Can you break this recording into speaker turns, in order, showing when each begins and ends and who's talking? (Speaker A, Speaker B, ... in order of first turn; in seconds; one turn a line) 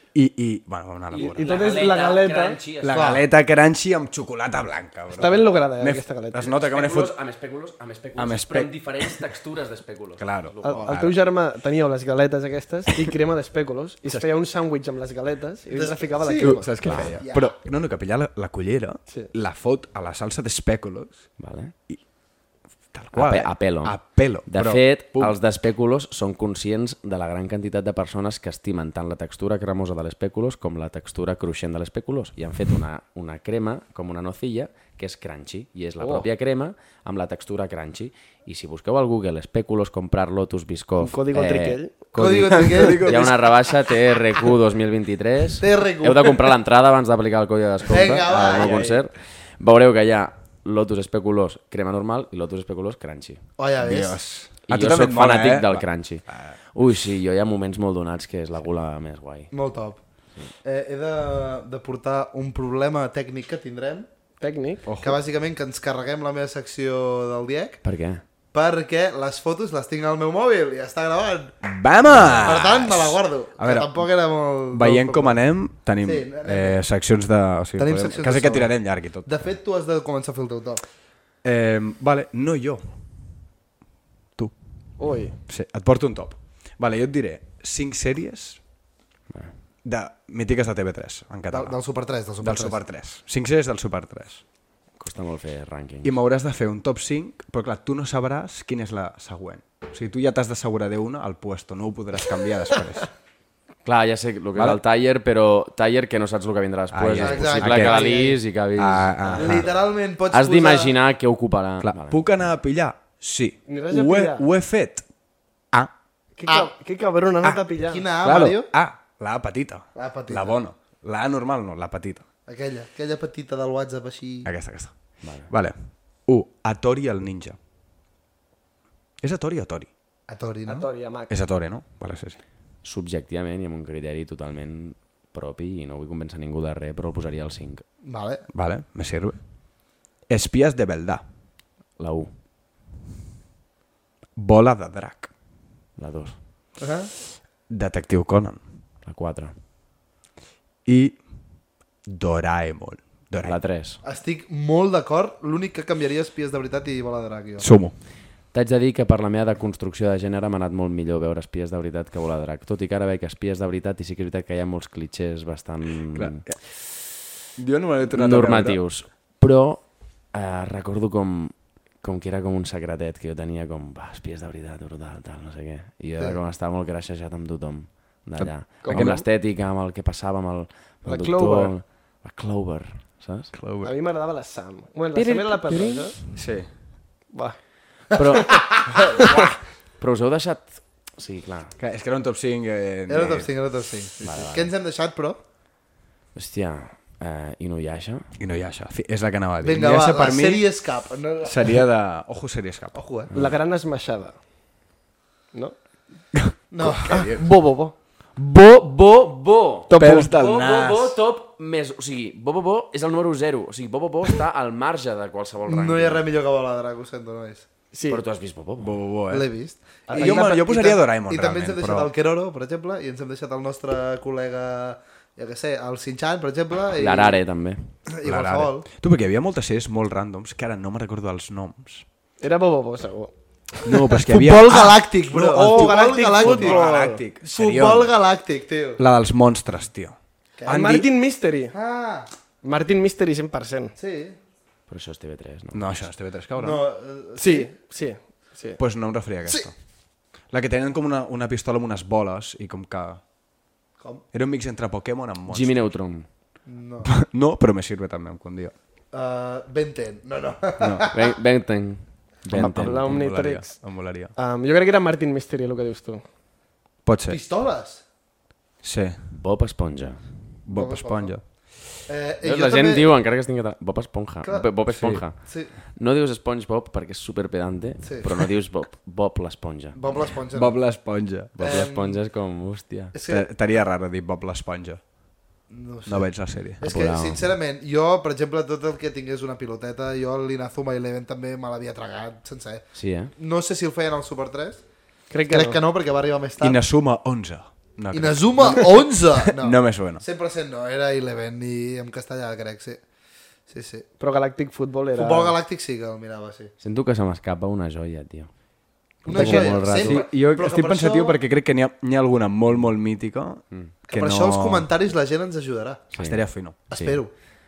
Speaker A: 0.1-1.7
Speaker B: 1.1-3.1
Speaker C: 1.2-2.6
Speaker A: 2.8-7.1
Speaker D: 2.9-3.2
Speaker C: 5.1-6.5
Speaker B: 6.6-10.9
Speaker A: 8.2-9.2
Speaker A: 10.2-11.2
Speaker C: 10.6-17.0
Speaker D: 15.7-17.6
Speaker A: 16.4-21.3
Speaker B: 16.8-17.1
Speaker B: 21.4-21.7
Speaker A: 22.9-25.3
Speaker B: 23.1-53.4
Speaker C: 36.0-36.3
Speaker C: 41.0-42.0
Speaker D: 42.1-43.3
Speaker A: 42.5-43.4
Speaker D: 45.6-46.5
Speaker D: 47.9-48.9
Speaker A: 48.3-49.0
Speaker D: 53.6-54.2
Speaker A: 53.8-56.5
Speaker B: 54.7-59.5
Speaker D: 59.5-60.0
Speaker D: 60.6-64.1
Speaker C: 64.4-64.8
Speaker A: 64.8-65.2
Speaker D: 65.0-67.8
Speaker B: 67.8-68.2
Speaker D: 68.5-71.5
Speaker A: 71.6-74.1
Speaker D: 72.4-75.4
Speaker A: 74.7-79.3
Speaker D: 76.0-76.8
Speaker D: 77.8-80.8
Speaker A: 81.4-82.8
Speaker C: 85.0-85.3
Speaker A: 85.5-88.6
Speaker A: 89.8-91.8
Speaker D: 91.5-92.8
Speaker A: 92.4-94.4
Speaker B: 95.0-96.1
Speaker A: 96.0-103.1
Speaker B: 103.8-109.7
Speaker A: 106.9-109.7
Speaker D: 107.2-108.4
Speaker D: 109.3-111.0
Speaker B: 110.3-112.2
Speaker A: 111.8-115.0
Speaker C: 113.7-114.5
Speaker C: 116.4-118.0
Speaker D: 117.8-118.7
Speaker A: 118.2-122.2
Speaker D: 119.9-120.6
Speaker D: 122.5-124.5
Speaker A: 124.4-127.6
Speaker B: 125.2-125.5
Speaker A: 129.2-129.9
Speaker D: 130.3-130.9
Speaker C: 130.7-131.3
Speaker A: 131.3-132.4
Speaker B: 132.8-137.8
Speaker D: 138.0-138.4
Speaker A: 138.5-139.4
Speaker A: 140.2-141.2
Speaker B: 142.0-142.3
Speaker A: 144.3-145.3
Speaker B: 146.0-146.4
Speaker D: 146.8-147.1
Speaker A: 147.7-148.6
Speaker B: 149.0-149.5
Speaker A: 150.8-151.2
Speaker A: 152.0-153.6
Speaker B: 153.4-154.0
Speaker D: 154.0-157.7
Speaker A: 157.6-157.9
Speaker B: 158.5-166.4
Speaker A: 166.1-166.8
Speaker A: 167.6-168.8
Speaker B: 168.1-183.5
Speaker A: 178.4-179.2
Speaker C: 178.8-179.1
Speaker C: 181.0-181.7
Speaker A: 183.5-183.9
Speaker C: 183.8-186.1
Speaker B: 185.1-186.3
Speaker A: 186.3-186.7
Speaker B: 188.1-189.5
Speaker D: 188.5-189.5
Speaker B: 190.0-191.8
Speaker A: 191.8-193.5
Speaker D: 193.1-195.4
Speaker B: 194.2-194.7
Speaker B: 196.3-198.3
Speaker A: 198.4-200.6
Speaker D: 199.6-201.8
Speaker A: 201.4-203.0
Speaker D: 202.9-203.3
Speaker C: 203.3-204.3
Speaker D: 206.7-207.2
Speaker A: 206.8-207.5
Speaker C: 207.0-207.9
Speaker B: 208.3-216.2
Speaker C: 209.9-210.3
Speaker A: 210.0-211.2
Speaker D: 215.7-217.7
Speaker C: 217.9-218.2
Speaker B: 218.1-219.0
Speaker A: 218.8-219.5
Speaker D: 219.3-227.4
Speaker C: 220.1-220.5
Speaker A: 220.1-222.1
Speaker B: 226.9-227.9
Speaker D: 228.1-228.9
Speaker A: 228.2-232.0
Speaker C: 232.4-234.0
Speaker A: 233.8-238.1
Speaker D: 234.2-236.8
Speaker C: 235.5-237.2
Speaker D: 237.4-239.0
Speaker A: 239.0-241.1
Speaker D: 240.6-240.9
Speaker C: 240.7-241.7
Speaker D: 241.7-242.3
Speaker C: 242.6-243.9
Speaker D: 243.9-244.4
Speaker B: 244.9-246.0
Speaker A: 245.7-246.8
Speaker D: 246.6-247.7
Speaker C: 247.4-248.8
Speaker A: 248.8-249.7
Speaker A: 250.5-253.2
Speaker A: 254.3-255.9
Speaker B: 255.5-256.3
Speaker D: 256.6-257.1
Speaker A: 257.0-258.7
Speaker D: 259.1-261.3
Speaker A: 260.8-261.1
Speaker B: 261.1-263.1
Speaker C: 262.5-263.8
Speaker A: 262.5-264.3
Speaker C: 264.3-266.2
Speaker A: 267.0-267.4
Speaker D: 267.3-268.0
Speaker A: 268.8-269.2
Speaker B: 269.3-270.2
Speaker A: 270.6-271.4
Speaker D: 270.7-271.4
Speaker D: 272.1-273.1
Speaker B: 272.4-280.0
Speaker D: 274.4-274.7
Speaker A: 274.9-275.2
Speaker D: 275.2-275.7
Speaker D: 278.0-278.3
Speaker D: 279.9-280.9
Speaker A: 280.5-281.5
Speaker B: 281.5-283.1
Speaker D: 281.6-282.2
Speaker D: 283.1-283.5
Speaker A: 283.3-285.1
Speaker D: 285.7-294.8
Speaker A: 286.1-286.8
Speaker B: 286.8-287.5
Speaker B: 292.9-293.3
Speaker C: 295.3-295.8
Speaker D: 295.5-296.8
Speaker A: 296.6-300.2
Speaker D: 298.1-303.0
Speaker D: 303.7-304.1
Speaker C: 304.2-305.5
Speaker D: 305.1-306.7
Speaker B: 306.8-308.5
Speaker B: 309.2-310.2
Speaker D: 309.2-311.4
Speaker A: 309.3-314.9
Speaker D: 314.1-316.1
Speaker B: 316.1-317.2
Speaker A: 316.1-316.8
Speaker D: 316.9-317.3